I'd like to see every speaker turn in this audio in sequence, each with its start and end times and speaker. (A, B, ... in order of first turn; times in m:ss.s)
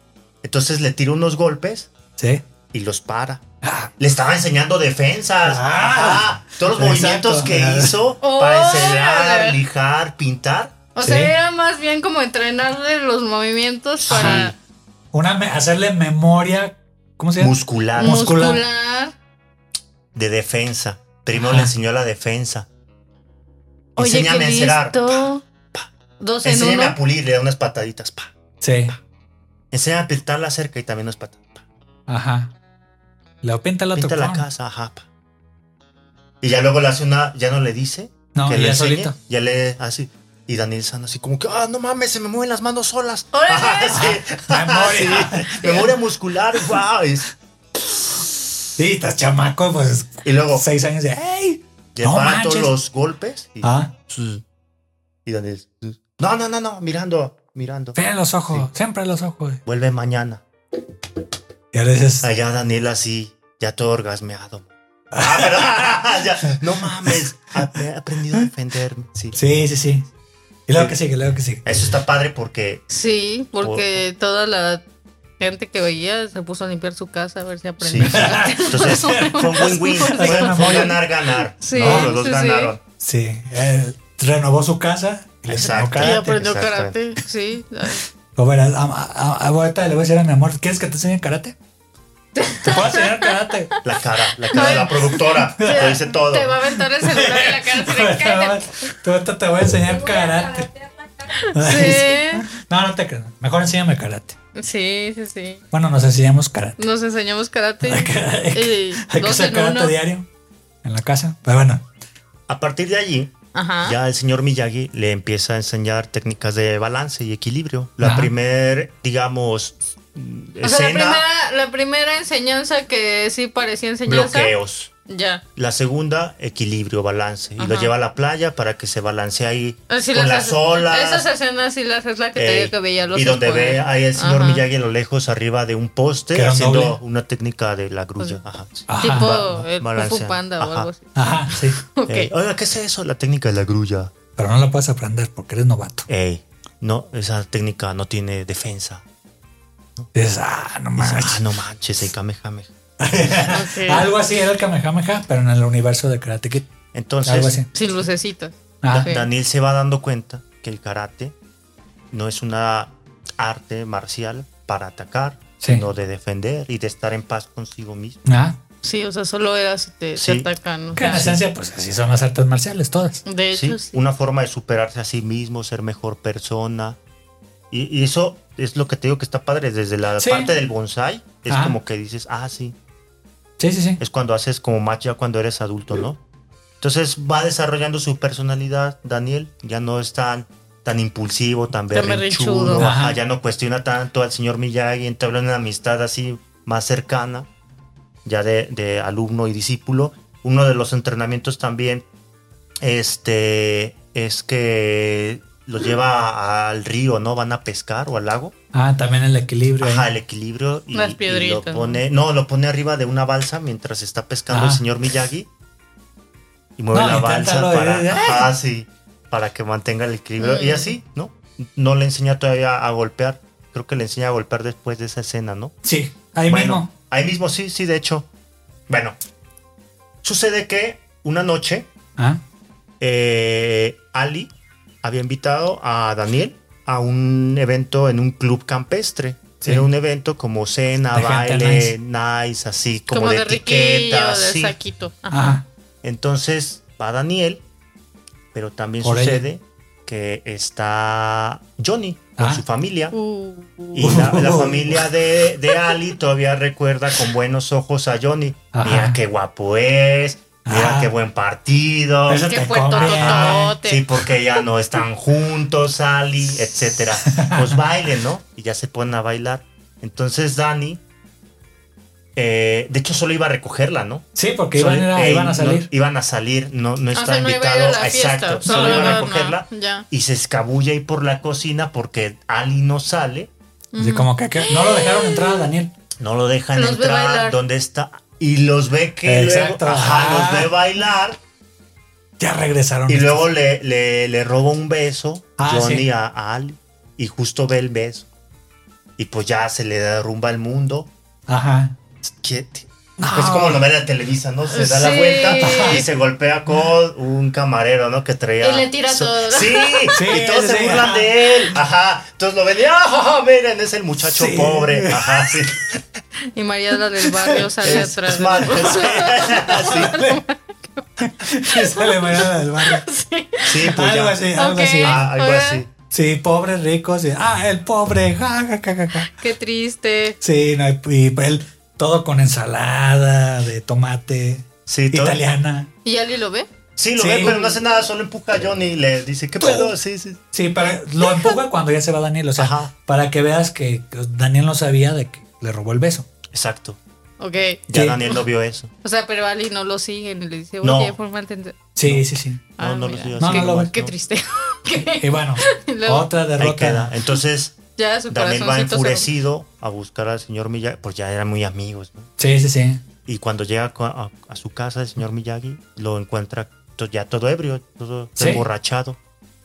0:00.4-0:01.9 A
0:02.2-0:02.4 B
0:02.7-0:03.4 A
0:03.6-0:03.9 B
0:04.0-0:10.7 A
0:05.4-0:07.9 B
0:08.2-0:09.6 C
0:10.9-0:14.5 C
0:11.0-0:11.3 B
0:14.0-0:14.5 A
0:14.1-0:14.5 B
0:15.1-0:18.6 B
0:17.4-0:18.4 A
0:18.0-0:19.1 C
0:20.1-0:22.7 A
0:21.3-0:21.7 B
0:24.0-0:25.9 A
0:24.0-0:25.4 C
0:26.2-0:27.0 C
0:26.4-0:28.3 A
0:28.6-0:29.0 B
0:29.7-0:31.6 A
0:32.1-0:32.5 B
0:33.4-0:34.4 B
0:33.9-0:35.1 A
0:36.4-0:47.3 A
0:38.3-0:39.1 B
0:43.3-0:44.1 C
0:43.9-0:45.9 B
0:48.7-0:52.7 B
0:50.2-0:50.6 A
0:51.9-0:54.4 A
0:53.6-0:53.9 B
0:55.2-0:58.0 A
0:57.9-0:59.6 B
0:59.6-1:00.4 A
1:01.7-1:02.3 B
1:02.2-1:09.4 A
1:05.1-1:05.6 B
1:09.3-1:10.1 B
1:10.7-1:11.6 B
1:11.6-1:12.8 A
1:12.9-1:14.8 C
1:13.6-1:13.8 A
1:15.4-1:20.9 C
1:17.8-1:22.8 A
1:18.0-1:21.0 B
1:21.6-1:22.7 C
1:21.7-1:22.1 B
1:23.0-1:26.2 B
1:25.5-1:27.0 A
1:26.0-1:28.0 C
1:28.3-1:31.5 B
1:32.4-1:33.3 C
1:32.6-1:33.7 B
1:33.8-1:36.6 A
1:34.5-1:39.0 C
1:35.6-1:36.0 B
1:37.0-1:40.8 B
1:41.2-1:42.4 C
1:41.4-1:44.4 B
1:44.5-1:45.6 C
1:45.7-1:46.8 B
1:46.8-1:49.9 C
1:47.8-1:50.3 B
1:50.8-1:51.8 B
1:52.5-2:01.2 A
1:53.5-1:54.0 C
1:58.0-1:58.3 B
2:00.6-2:04.5 C
2:04.0-2:04.9 A
2:05.1-2:05.4 C
2:05.6-2:11.2 A
2:07.6-2:07.9 C
2:09.9-2:14.6 C
2:12.4-2:20.9 A
2:16.3-2:17.0 B
2:18.9-2:19.3 B
2:19.0-2:22.3 C
2:21.2-2:21.8 B
2:22.1-2:24.1 A
2:24.4-2:26.1 B
2:26.1-2:29.0 A
2:30.1-2:31.4 B
2:31.0-2:32.7 A
2:33.0-2:36.7 B
2:33.5-2:34.1 C
2:36.9-2:37.6 A
2:37.2-2:37.7 B
2:37.7-2:39.3 C
2:38.8-2:39.1 B
2:38.9-2:41.3 A
2:42.1-2:48.2 A
2:48.2-2:48.6 B
2:48.8-2:51.3 C
2:50.2-2:51.4 A
2:50.9-2:53.2 B
2:53.2-2:54.0 C
2:53.5-2:57.0 A
2:57.7-3:02.7 A
3:00.2-3:00.5 B
3:01.5-3:01.8 B
3:03.6-3:04.0 B
3:04.0-3:06.2 A
3:06.8-3:17.5 A
3:11.9-3:12.9 C
3:12.7-3:13.2 B
3:18.2-3:22.0 A
3:22.8-3:28.5 A
3:28.7-3:30.1 B
3:29.8-3:35.5 A
3:30.9-3:32.0 C
3:34.5-3:34.8 B
3:36.8-3:45.7 A
3:36.9-3:38.5 B
3:40.4-3:40.9 C
3:45.8-3:46.9 B
3:46.5-3:48.3 A
3:48.9-3:49.2 A
3:50.2-3:51.9 A
3:53.0-3:54.5 A
3:55.0-4:04.8 A
3:59.6-3:59.9 B
4:01.1-4:02.0 B
4:03.1-4:05.6 C
4:05.3-4:05.6 B
4:06.0-4:07.6 A
4:08.5-4:13.1 A
4:09.0-4:09.4 B
4:12.4-4:12.6 B
4:13.1-4:14.1 C
4:13.9-4:31.0 A
4:14.0-4:15.0 B
4:18.7-4:19.2 B
4:20.6-4:21.1 B
4:22.3-4:23.7 B
4:22.4-4:24.0 C
4:27.2-4:27.8 B
4:32.4-4:43.5 A
4:34.3-4:35.9 B
4:37.1-4:40.0 C
4:38.6-4:39.2 B
4:43.9-4:45.7 C
4:44.0-4:45.9 B
4:46.2-4:51.4 A
4:46.7-4:47.6 C
4:49.2-4:50.7 B
4:52.4-4:53.5 B
4:53.1-4:58.2 A
4:55.6-4:56.1 B
4:59.2-5:01.1 A
5:01.5-5:02.0 B
5:02.2-5:16.0 A
5:03.2-5:03.9 B
5:04.7-5:06.0 C
5:05.6-5:06.1 B
5:08.6-5:10.2 C
5:10.1-5:11.7 B
5:14.2-5:15.6 B
5:16.5-5:23.9 C
5:17.3-5:20.4 B
5:17.8-5:20.1 A
5:21.2-5:23.0 B
5:23.6-5:24.4 A
5:23.9-5:25.2 B
5:24.5-5:25.8 C
5:25.0-5:25.9 A
5:26.1-5:29.4 B
5:29.3-5:30.4 C
5:30.4-5:35.9 B
5:34.9-5:35.4 A
5:36.0-5:36.7 C
5:37.0-5:40.4 A
5:37.2-5:37.5 B
5:37.4-5:37.8 C
5:39.6-5:39.9 B
5:40.5-5:46.3 B
5:41.2-5:41.5 C
5:42.6-5:42.9 A
5:46.5-5:47.0 A
5:47.4-5:48.3 C
5:47.9-5:48.9 A
5:47.9-5:48.2 B
5:49.0-5:51.8 C
5:50.8-5:51.1 A
5:52.0-5:52.6 B
5:52.0-5:54.1 A
5:52.8-5:56.3 C
5:53.4-5:53.9 B
5:54.9-5:57.1 B
5:56.6-5:57.8 A
5:58.0-5:59.3 C
5:58.3-6:02.3 A
6:02.4-6:03.0 B
6:03.2-6:09.2 A
6:08.4-6:08.6 B